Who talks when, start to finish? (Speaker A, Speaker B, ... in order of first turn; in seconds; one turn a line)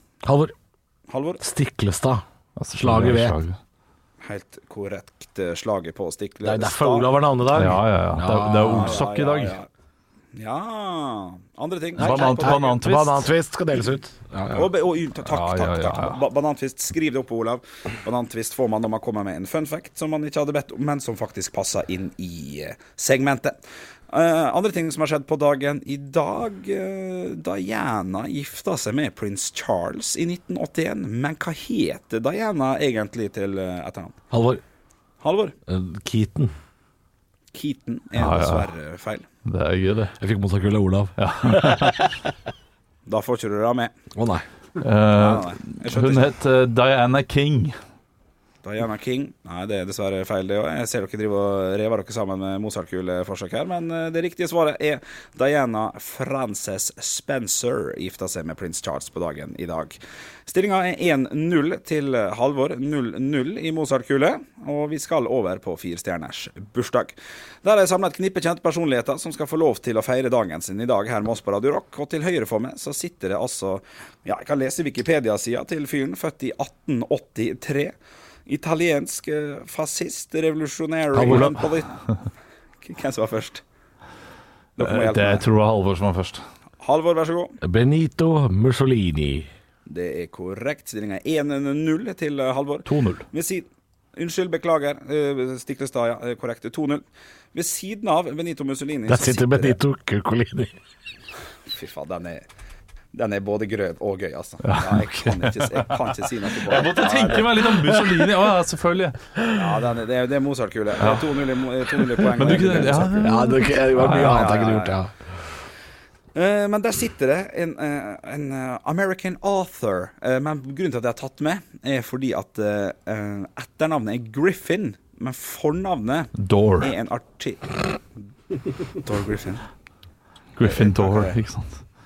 Speaker A: 0.2-0.5
Speaker B: 1.1-1.4
Speaker A: 1.4-2.2
Speaker C: 2.5-3.6
Speaker A: 2.8-3.4
Speaker B: 4.2-7.1
Speaker A: 6.4-9.0
Speaker C: 7.5-9.6
Speaker B: 8.7-9.7
Speaker B: 10.3-12.8
Speaker C: 12.0-13.3
Speaker A: 12.0-14.7
Speaker B: 14.5-23.6
Speaker C: 15.2-16.2
Speaker B: 24.1-34.2
Speaker A: 34.3-34.6
Speaker B: 35.2-35.5
Speaker A: 35.7-36.5
Speaker B: 37.5-39.2
Speaker C: 38.1-38.7
Speaker C: 39.4-40.1
Speaker A: 40.1-42.2
Speaker C: 41.2-42.1
Speaker B: 43.0-43.9
Speaker A: 44.1-44.4
Speaker C: 44.8-47.8
Speaker B: 45.1-46.4
Speaker B: 48.6-77.9
Speaker B: 78.5-81.9
Speaker A: 81.1-81.5
Speaker C: 81.2-81.5
Speaker B: 82.8-83.6
Speaker B: 84.8-85.5
Speaker C: 84.8-86.4
Speaker B: 86.8-87.5
Speaker A: 87.6-89.5
Speaker B: 89.8-99.8
Speaker C: 92.8-93.2
Speaker A: 99.1-100.7
Speaker B: 101.7-102.4
Speaker B: 103.1-107.8
Speaker C: 104.6-109.2
Speaker A: 107.9-108.3
Speaker B: 109.5-113.3
Speaker C: 111.0-111.3
Speaker C: 112.2-114.5
Speaker A: 113.0-115.1
Speaker B: 114.0-115.0
Speaker B: 116.3-128.2
Speaker C: 126.3-126.9
Speaker B: 129.0-129.6
Speaker C: 130.6-131.8
Speaker B: 130.6-131.4